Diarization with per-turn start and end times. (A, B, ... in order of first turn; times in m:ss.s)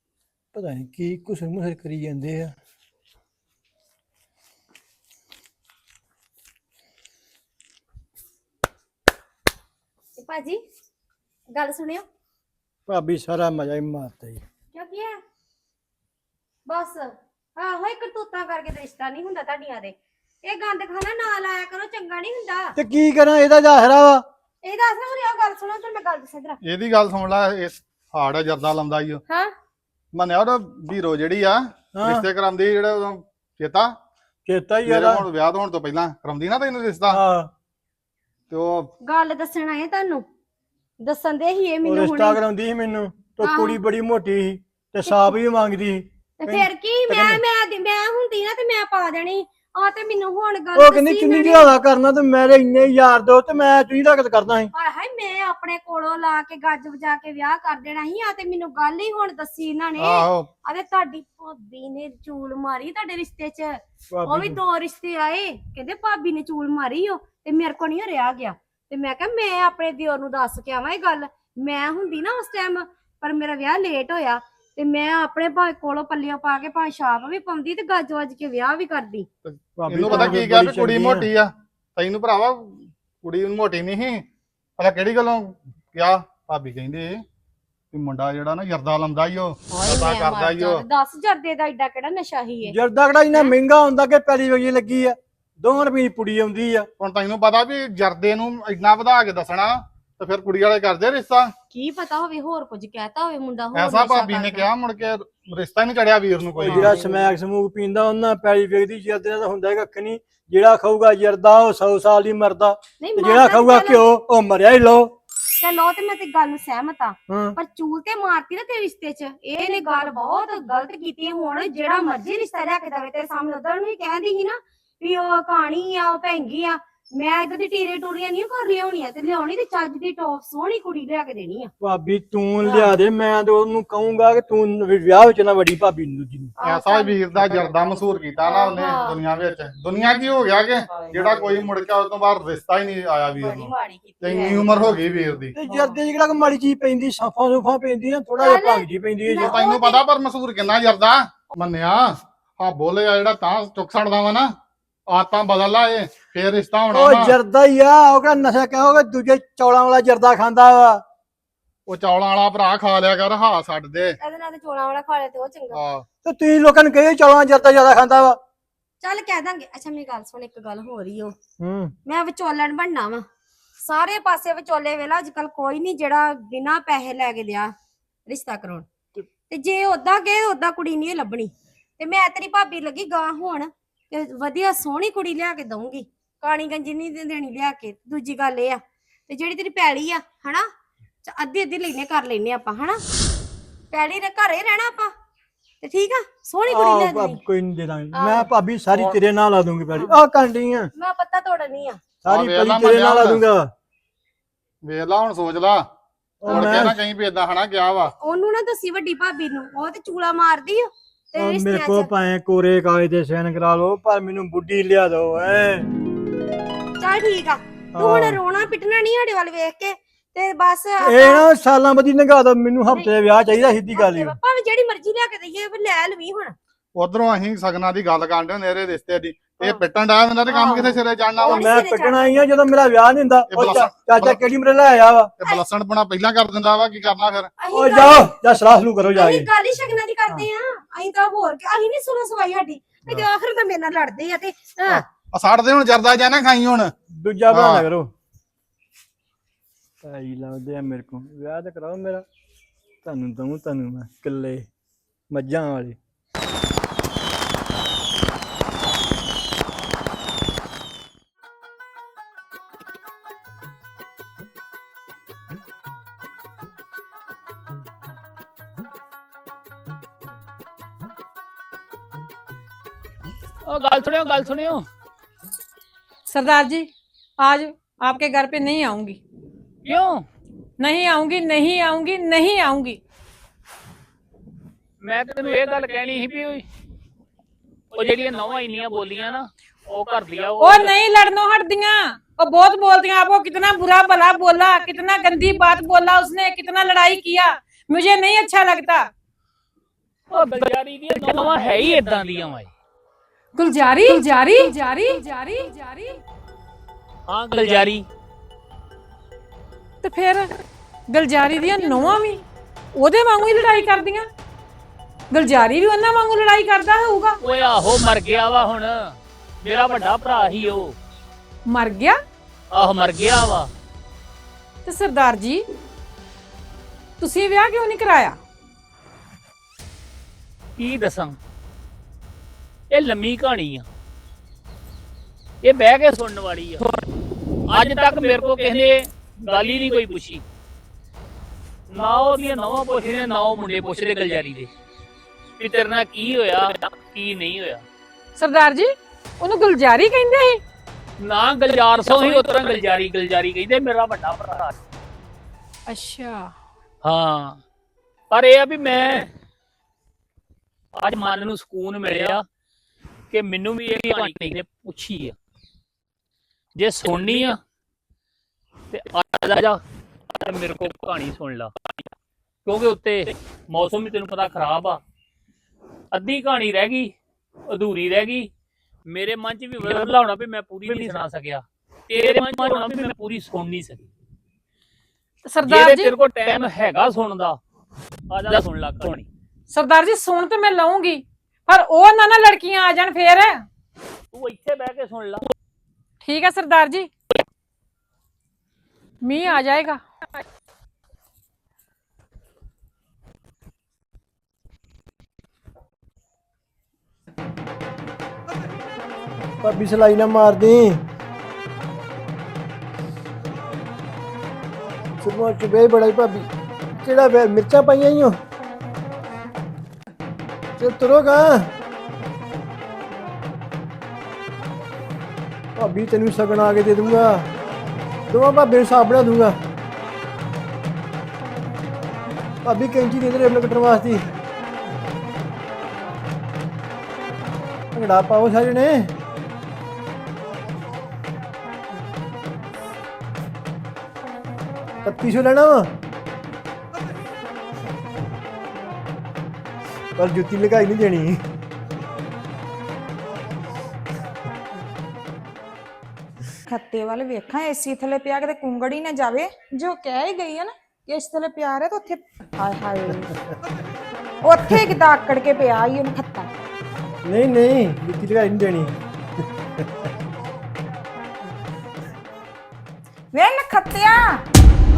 0:00.5-0:02.6 A
0:10.2-0:10.6 B
0:11.5-0:12.0 B
0:12.9-0:14.4 A
0:14.7-0:15.2 B
0:16.7-0:22.7 B
0:22.8-0:24.2 A
0:24.6-0:26.6 B
0:26.6-0:29.2 C
0:30.1-0:33.9 C
0:32.0-0:32.3 A
0:34.5-0:35.2 A
0:34.9-0:37.2 C
0:37.1-0:37.5 A
0:38.5-0:38.9 C
0:39.0-0:40.2 B
0:41.0-0:42.4 B
0:41.8-0:47.4 A
0:43.4-0:43.8 B
0:45.0-0:45.3 B
0:46.4-0:51.7 B
0:50.8-0:54.7 A
0:54.7-1:19.3 B
1:00.0-1:00.5 C
1:04.1-1:04.6 A
1:19.5-1:24.3 C
1:19.8-1:21.3 A
1:20.1-1:20.4 B
1:24.8-1:27.2 C
1:27.9-1:30.8 C
1:29.7-1:32.8 B
1:32.6-1:36.9 A
1:37.0-1:41.5 C
1:41.7-1:44.7 B
1:43.7-1:47.0 C
1:46.6-1:55.2 A
1:53.0-1:54.0 B
1:55.6-2:11.7 B
1:57.3-1:57.6 A
2:11.8-2:16.5 A
2:16.6-2:25.6 C
2:16.6-2:17.3 B
2:18.4-2:19.2 B
2:21.0-2:21.3 B
2:23.4-2:25.1 B
2:25.6-2:29.6 A
2:28.4-2:30.0 B
2:29.4-2:34.6 C
2:35.1-2:37.4 C
2:36.9-2:41.0 A
2:41.9-2:44.2 C
2:44.2-2:45.8 B
2:45.7-2:46.0 C
2:46.2-2:48.4 A
2:49.0-2:51.4 B
2:51.6-2:52.0 A
2:52.1-2:53.3 B
2:53.8-2:57.8 B
2:58.3-2:58.9 B
2:59.5-3:10.7 B
3:11.2-3:13.0 B
3:13.9-3:15.1 B
3:15.8-3:17.4 B
3:16.7-3:20.9 A
3:18.1-3:18.5 B
3:21.0-3:22.0 B
3:22.2-3:23.7 A
3:22.3-3:23.4 C
3:24.8-3:25.8 C
3:26.4-3:27.0 A
3:26.5-3:28.1 C
3:26.5-3:26.8 B
3:28.1-3:32.1 B
3:31.4-3:35.9 A
3:37.0-3:41.4 B
3:38.0-3:38.4 A
3:41.0-3:44.4 A
3:43.9-3:46.6 B
3:47.0-3:51.7 C
3:50.5-3:52.4 B
3:51.4-3:55.4 A
3:53.5-3:54.4 C
3:55.4-3:57.5 C
3:57.6-3:58.3 B
3:57.7-3:59.5 A
3:59.1-4:05.0 B
4:04.9-4:06.9 C
4:07.1-4:08.1 A
4:07.5-4:07.9 C
4:10.0-4:12.2 A
4:13.0-4:14.7 A
4:15.3-4:16.0 A
4:33.7-4:34.9 D
4:36.3-4:39.2 E
4:39.8-4:40.3 D
4:40.8-4:43.0 E
4:45.0-4:46.6 D
4:47.9-4:51.0 D
4:50.6-4:59.1 E
5:00.3-5:02.7 D
5:03.6-5:06.2 E
5:07.3-5:08.1 D
5:10.0-5:10.5 E
5:11.1-5:14.3 E
5:15.3-5:17.4 E
5:17.4-5:20.9 D
5:21.7-5:22.2 E
5:22.7-5:23.7 D
5:24.8-5:25.6 E
5:27.2-5:28.4 E
5:30.8-5:31.4 D
5:32.9-5:33.9 D
5:35.6-5:36.9 D
5:37.7-5:40.4 D
5:41.9-5:44.7 D
5:45.6-5:47.8 D
5:48.4-5:50.6 E
5:51.2-5:54.8 D
5:55.9-5:56.5 E
5:57.0-5:57.6 D
5:58.3-5:59.3 D
6:01.0-6:02.4 D
6:03.3-6:05.4 D
6:06.8-6:07.6 D
6:08.9-6:09.8 D
6:10.4-6:11.7 D
6:12.7-6:15.0 D
6:16.1-6:17.1 D
6:17.7-6:18.5 D
6:19.1-6:24.1 D
6:25.5-6:26.1 E
6:25.6-6:27.6 D
6:28.3-6:29.3 D
6:29.7-6:33.7 E
6:34.3-6:35.5 D
6:36.2-6:37.1 E
6:39.2-6:40.0 E
6:49.6-6:51.0 A
6:55.2-6:58.4 A
7:00.8-7:01.7 A
7:05.8-7:07.5 A
7:08.3-7:09.6 A
7:12.6-7:14.3 A
7:17.9-7:19.2 A
7:25.0-7:26.0 A
7:30.2-7:31.4 A
7:36.7-7:43.4 F
7:44.5-7:46.5 F
7:47.2-7:49.0 A
7:49.8-7:50.1 A
7:53.3-7:54.4 F